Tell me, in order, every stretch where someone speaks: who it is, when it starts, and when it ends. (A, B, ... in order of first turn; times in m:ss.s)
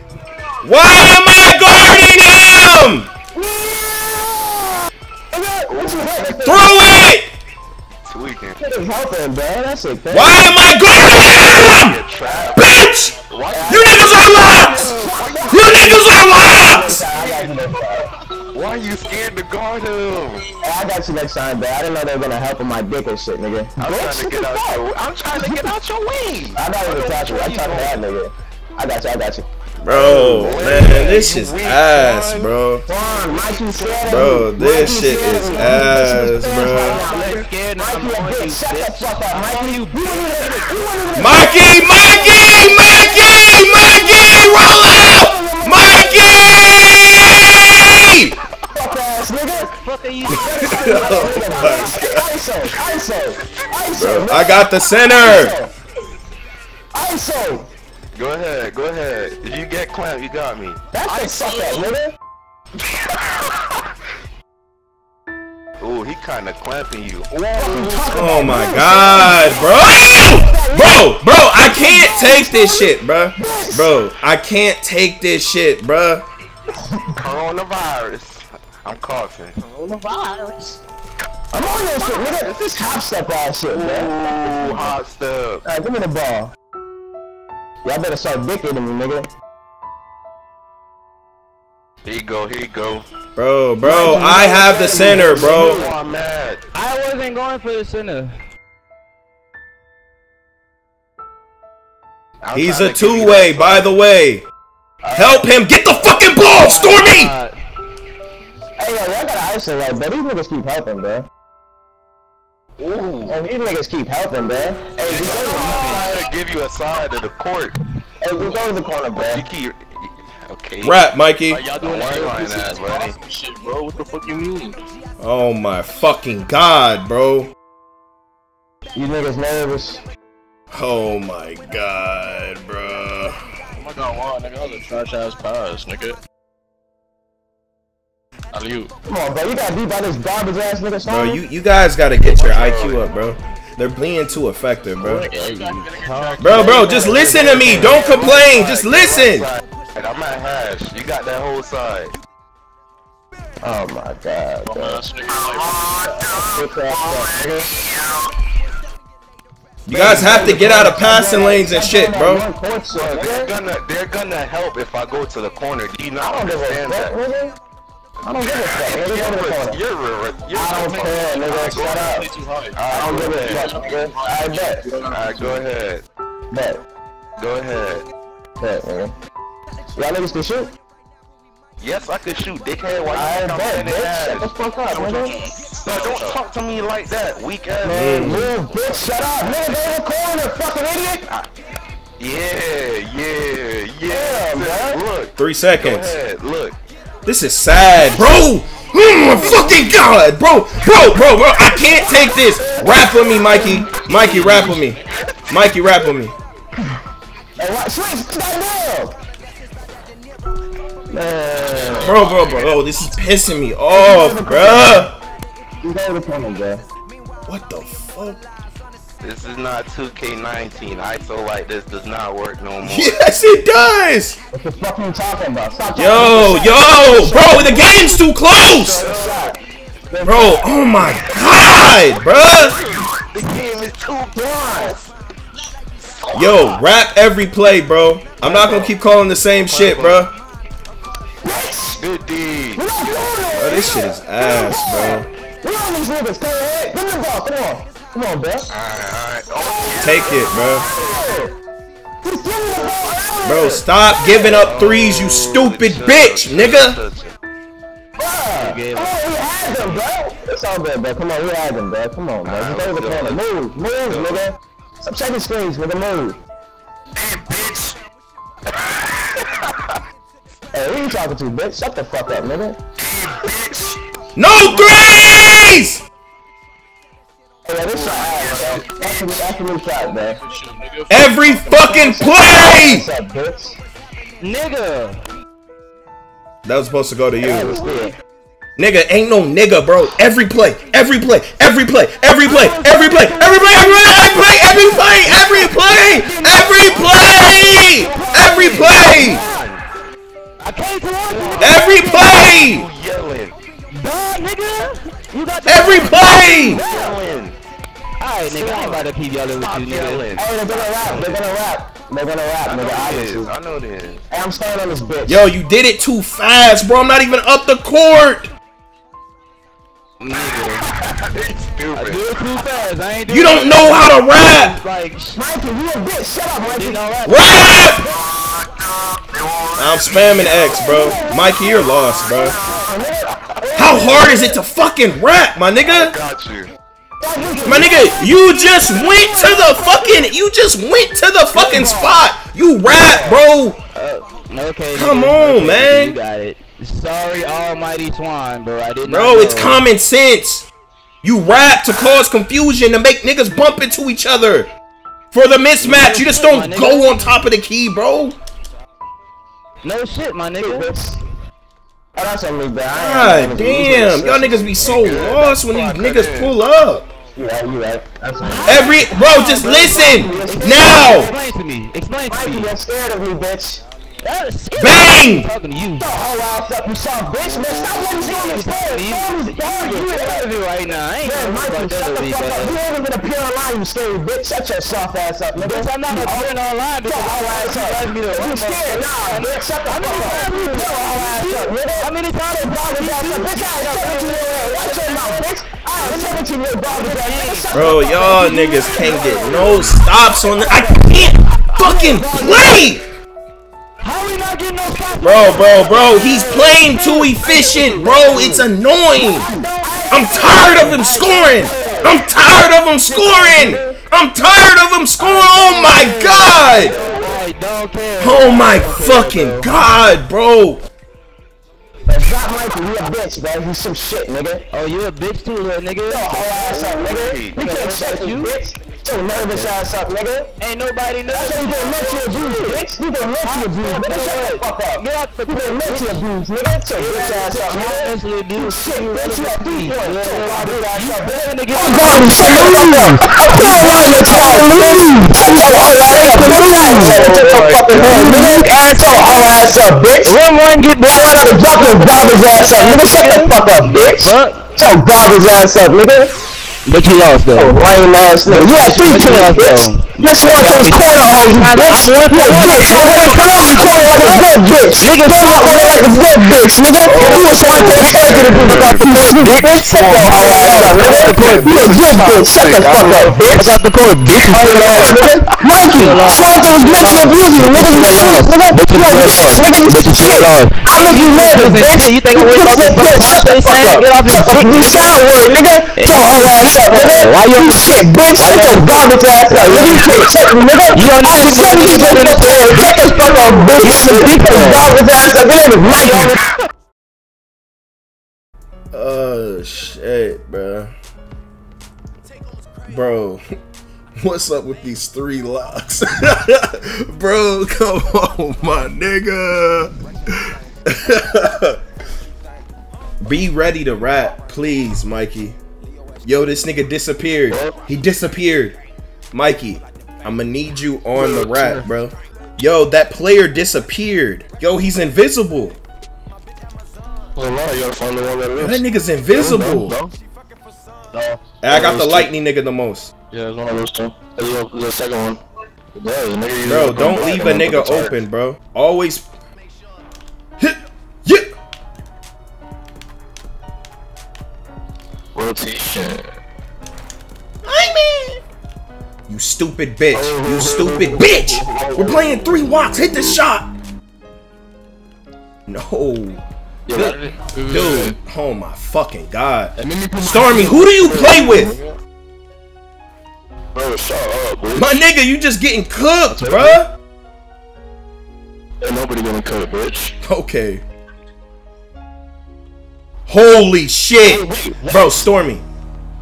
0:00.6-0:03.1 A
0:01.8-0:02.1 B
0:03.3-0:04.6 B
0:05.3-0:06.8 B
0:06.4-0:07.3 A
0:08.0-0:08.6 C
0:08.6-0:10.6 B
0:10.1-0:12.0 A
0:10.9-0:16.0 C
0:12.5-0:14.9 A
0:13.5-0:18.1 B
0:15.5-0:17.0 A
0:18.5-0:20.5 C
0:20.6-0:24.8 B
0:23.8-0:28.0 C
0:25.4-0:25.7 B
0:26.6-0:31.1 B
0:29.8-0:32.8 A
0:29.9-0:32.5 C
0:32.9-0:46.8 B
0:34.0-0:37.0 A
0:36.7-0:40.3 D
0:41.1-0:48.4 A
0:48.7-0:49.7 B
0:49.8-0:51.4 D
0:50.2-0:55.7 B
0:50.3-0:52.3 A
0:54.0-0:55.6 A
0:56.9-0:57.7 B
0:58.1-1:01.8 C
1:00.9-1:02.1 B
1:02.8-1:03.7 C
1:05.8-1:08.3 C
1:07.6-1:14.0 B
1:08.1-1:16.2 A
1:16.8-1:17.2 B
1:17.2-1:19.6 C
1:19.6-1:20.8 D
1:21.5-1:25.0 B
1:22.1-1:22.8 C
1:23.7-1:25.6 C
1:25.6-1:26.5 B
1:27.8-1:29.3 B
1:32.0-1:33.0 C
1:33.4-1:35.8 A
1:33.8-1:36.0 B
1:34.9-1:36.6 C
1:36.7-1:38.3 D
1:42.4-1:43.9 C
1:42.5-1:44.4 A
1:45.0-1:45.4 B
1:45.1-1:47.3 A
1:46.4-1:47.5 D
1:48.8-1:51.3 B
1:52.8-1:53.4 C
1:53.3-1:56.1 B
1:55.0-1:57.8 C
1:55.2-1:56.1 E
1:58.2-1:59.4 B
1:59.1-2:01.0 C
2:00.8-2:01.6 A
2:01.5-2:04.8 E
2:01.8-2:03.2 C
2:05.2-2:07.5 A
2:08.9-2:10.0 B
2:10.7-2:13.4 A
2:13.8-2:16.2 E
2:18.5-2:18.9 E
2:19.1-2:21.4 B
2:21.0-2:25.3 A
2:22.2-2:23.0 C
2:25.0-2:27.0 D
2:25.4-2:26.8 E
2:26.4-2:29.5 A
2:26.5-2:28.2 B
2:26.9-2:32.2 C
2:33.6-2:35.0 B
2:34.6-2:36.4 E
2:35.4-2:36.5 C
2:36.4-2:37.7 B
2:39.8-2:42.4 A
2:39.9-2:43.5 B
2:42.9-2:47.1 C
2:46.2-2:47.5 B
2:48.2-2:49.8 B
2:48.5-2:52.0 C
2:50.5-2:52.3 B
2:51.3-2:55.7 E
2:52.7-2:53.8 C
2:52.9-2:54.9 B
2:55.1-2:56.0 C
2:56.5-2:56.8 B
2:57.4-2:58.0 C
2:58.6-2:59.1 B
2:59.9-3:00.7 B
3:01.8-3:04.5 C
3:03.1-3:05.4 B
3:04.9-3:06.3 E
3:05.7-3:08.4 C
3:07.8-3:11.3 B
3:07.8-3:08.5 A
3:12.2-3:16.8 C
3:14.1-3:15.0 B
3:15.4-3:16.2 A
3:17.2-3:26.3 A
3:19.2-3:19.7 B
3:21.8-3:23.9 B
3:24.2-3:24.6 C
3:27.6-3:29.2 B
3:31.1-3:32.1 B
3:31.1-3:32.4 C
3:31.9-3:35.2 A
3:33.9-3:35.1 B
3:35.8-3:36.8 B
3:37.4-3:38.4 A
3:39.2-3:43.2 C
3:42.8-3:44.4 A
3:44.5-3:48.2 B
3:45.9-3:49.0 A
3:48.6-3:49.5 C
3:48.9-3:49.6 B
3:50.1-3:50.8 B
3:50.2-3:52.8 A
3:52.2-3:55.1 C
3:54.4-3:55.0 B
3:56.0-3:56.8 C
3:56.3-4:00.3 A
3:58.4-3:58.9 C
3:59.6-4:00.3 C
4:01.4-4:02.0 B
4:02.0-4:03.7 C
4:02.8-4:08.7 B
4:03.6-4:05.3 A
4:08.7-4:11.1 C
4:10.0-4:10.9 A
4:10.5-4:11.5 B
4:12.2-4:13.8 B
4:13.4-4:17.0 A
4:14.3-4:17.3 C
4:18.2-4:26.4 B
4:18.6-4:20.0 D
4:22.4-4:23.4 C
4:24.1-4:24.4 C
4:27.1-4:28.0 C
4:28.7-4:29.8 C
4:30.7-4:32.8 B
4:33.0-4:34.0 C
4:34.4-4:36.0 A
4:34.6-4:35.0 C
4:37.6-4:40.4 B
4:38.0-4:38.9 E
4:38.1-4:38.7 C
4:40.4-4:41.9 E
4:41.1-4:43.1 A
4:41.8-4:43.8 B
4:44.4-4:45.2 D
4:46.6-4:47.8 A
4:47.4-4:48.1 B
4:48.8-4:59.4 A
4:52.4-4:59.7 D
4:58.2-4:59.8 C
4:58.5-4:59.2 B
5:00.6-5:02.0 D
5:01.3-5:03.6 C
5:01.6-5:02.9 A
5:03.9-5:06.9 D
5:05.6-5:06.8 A
5:06.2-5:07.6 C
5:06.8-5:07.2 B
5:08.2-5:10.2 D
5:08.5-5:11.5 C
5:10.4-5:13.5 B
5:12.6-5:14.2 C
5:14.3-5:15.4 B
5:15.2-5:18.5 A
5:20.2-5:20.9 D
5:20.3-5:22.3 C
5:21.9-5:25.4 D
5:23.3-5:24.8 A
5:25.3-5:27.0 B
5:26.7-5:27.9 D
5:27.2-5:28.1 A
5:27.9-5:30.4 E
5:29.8-5:32.5 A
5:30.3-5:34.6 B
5:33.8-5:36.1 A
5:35.8-5:36.7 C
5:37.2-5:38.2 B
5:37.6-5:43.8 A
5:39.2-5:40.1 B
5:41.5-5:42.1 B
5:42.9-5:43.4 B
5:43.9-5:49.8 D
5:44.9-5:46.2 A
5:49.0-5:50.7 A
5:51.2-5:54.7 A
5:55.3-5:58.4 A
5:55.8-5:57.3 D
5:59.8-6:00.9 D
6:00.6-6:01.2 B
6:02.2-6:04.9 B
6:02.9-6:07.1 A
6:04.8-6:06.6 C
6:07.3-6:11.4 B
6:08.6-6:11.3 A
6:10.3-6:12.7 D
6:12.3-6:13.8 B
6:14.2-6:16.1 D
6:14.7-6:15.5 A
6:16.0-6:20.4 B
6:17.9-6:22.8 D
6:21.2-6:26.5 B
6:25.5-6:33.8 D
6:27.0-6:38.6 B
6:37.0-6:39.9 D
6:37.7-6:43.0 A
6:40.7-6:41.0 B
6:41.8-6:42.7 B
6:42.0-6:42.6 D
6:44.0-6:47.4 D
6:45.2-6:49.5 A
6:46.9-6:48.6 B
6:49.5-6:54.0 B
6:50.1-6:56.9 A
6:51.7-6:52.0 D
6:55.2-6:59.9 D
6:56.6-6:57.4 B
6:58.2-7:00.8 A
7:02.1-7:04.7 B
7:04.7-7:06.6 D
7:06.1-7:10.5 B
7:06.6-7:07.6 C
7:07.5-7:08.5 D
7:10.6-7:12.8 D
7:11.3-7:30.4 B
7:13.7-7:16.2 D
7:17.0-7:29.6 D
7:27.1-7:27.9 E
7:30.2-7:34.6 D
7:31.0-7:36.3 B
7:36.8-7:37.8 D
7:37.5-7:53.8 B
7:38.4-7:46.2 D
7:46.9-7:48.1 D
7:47.1-7:53.1 C
7:48.8-7:52.4 D
7:50.3-7:50.8 E
7:53.5-8:05.3 D
7:54.5-8:16.4 B
8:05.9-8:10.4 D
8:10.9-8:14.9 D
8:15.9-8:16.3 D
8:18.9-8:20.9 A
8:22.9-8:23.4 A
8:24.2-8:31.8 A
8:33.2-8:35.6 A
8:36.2-8:38.8 A
8:37.5-8:37.8 E
8:39.3-8:45.8 A
8:41.2-8:41.8 E
8:47.3-8:50.1 E
8:48.6-8:50.0 A
8:51.1-8:52.3 E
8:51.6-8:53.1 A
8:53.3-8:55.4 E
8:55.9-8:58.1 E
8:56.6-8:59.2 A
9:00.6-9:01.5 A
9:05.3-9:06.2 E
9:07.6-9:08.4 A
9:09.3-9:13.6 A
9:10.1-9:13.4 E
9:15.7-9:21.7 A
9:16.9-9:18.2 E
9:19.8-9:22.0 E
9:23.7-9:24.9 E
9:24.7-9:26.9 A
9:26.3-9:26.8 E
9:28.8-9:30.2 E
9:30.2-9:30.8 A
9:33.3-9:35.6 A
9:34.2-9:35.2 E